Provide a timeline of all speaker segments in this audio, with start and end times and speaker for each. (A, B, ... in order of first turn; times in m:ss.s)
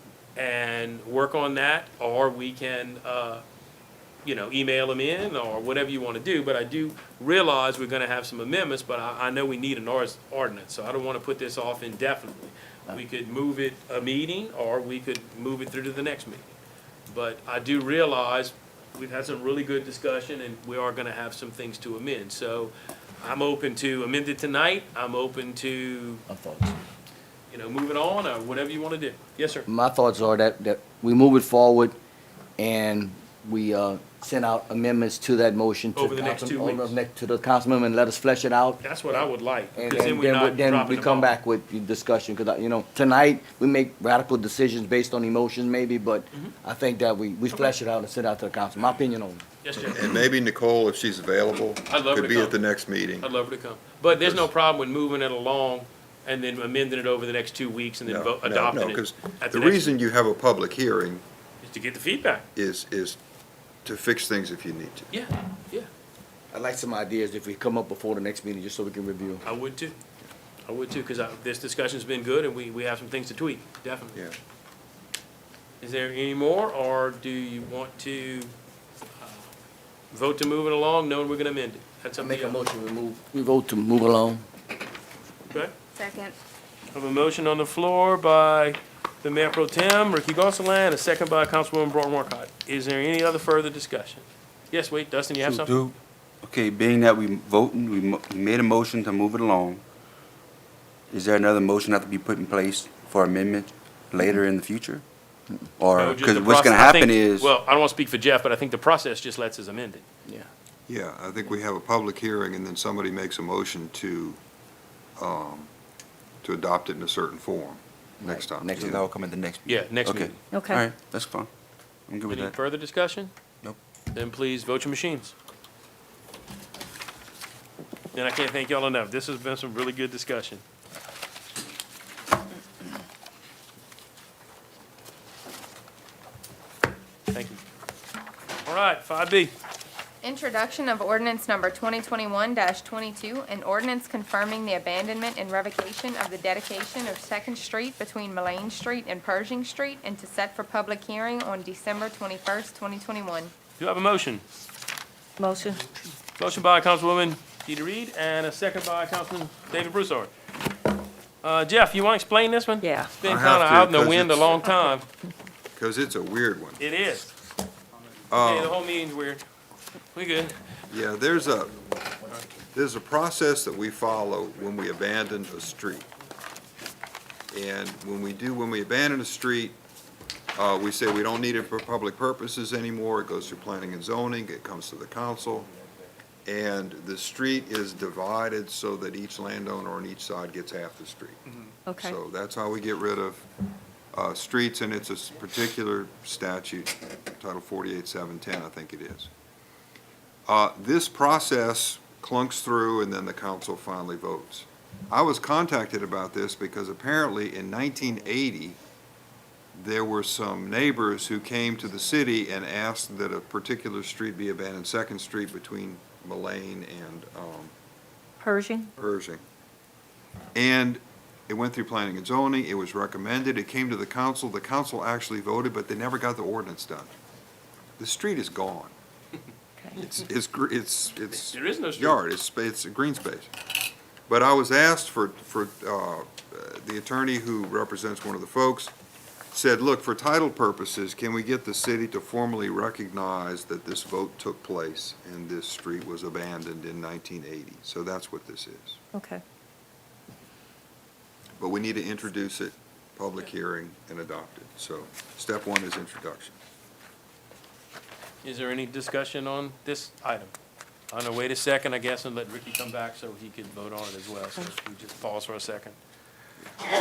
0:00.3-0:03.4 A
0:04.2-0:16.5 A
0:17.1-0:26.2 A
0:26.3-0:26.8 B
0:27.5-0:29.7 A
0:29.7-0:32.0 B
0:32.6-0:49.4 B
0:35.9-0:37.0 A
0:38.8-0:41.3 A
0:49.6-0:50.2 A
0:49.9-0:53.3 C
0:51.9-0:52.6 A
0:53.2-0:59.9 A
0:54.1-0:54.5 C
0:58.0-1:01.2 C
1:01.6-1:02.4 A
1:02.5-1:03.2 C
1:03.8-1:05.1 C
1:05.1-1:05.9 A
1:06.5-1:09.4 B
1:09.4-1:10.0 A
1:10.7-1:14.3 A
1:15.8-1:18.5 A
1:19.2-1:19.5 A
1:20.1-1:22.6 A
1:22.2-1:24.4 B
1:26.9-1:35.8 A
1:35.4-1:39.8 D
1:41.1-1:45.0 D
1:45.8-1:47.5 D
1:46.0-1:50.0 A
1:50.9-1:54.4 C
1:55.2-1:55.7 C
1:56.4-1:58.9 C
1:58.2-1:58.8 B
1:58.6-2:01.5 D
1:59.6-2:00.4 A
2:00.5-2:00.8 E
2:02.1-2:02.6 D
2:02.3-2:03.3 A
2:04.1-2:05.3 A
2:08.1-2:10.6 A
2:17.3-2:17.6 A
2:18.6-2:19.5 A
2:20.2-2:33.5 F
2:33.8-2:34.4 A
2:35.4-2:35.8 E
2:36.4-2:40.3 A
2:41.4-2:45.0 A
2:42.8-2:43.1 E
2:43.2-2:44.6 C
2:45.7-2:46.8 C
2:46.8-2:47.3 A
2:48.3-2:48.8 C
2:48.4-2:49.4 A
2:50.1-2:50.5 A
2:50.9-2:51.8 C
2:52.7-2:56.1 C
2:57.5-2:59.8 C
3:00.6-3:05.7 C
3:06.4-3:11.4 C
3:11.9-3:13.4 C
3:14.1-3:19.3 C
3:20.5-3:28.8 C
3:29.7-3:37.7 C
3:38.4-3:38.9 E
3:39.0-3:39.4 C
3:40.5-3:47.1 C
3:48.0-3:48.9 C
3:49.9-3:53.5 C
3:51.4-3:52.2 A
3:54.3-3:58.9 C
3:59.5-4:09.0 C
4:09.1-4:09.4 E
4:11.6-4:16.6 C
4:18.4-4:20.5 A
4:21.1-4:26.0 A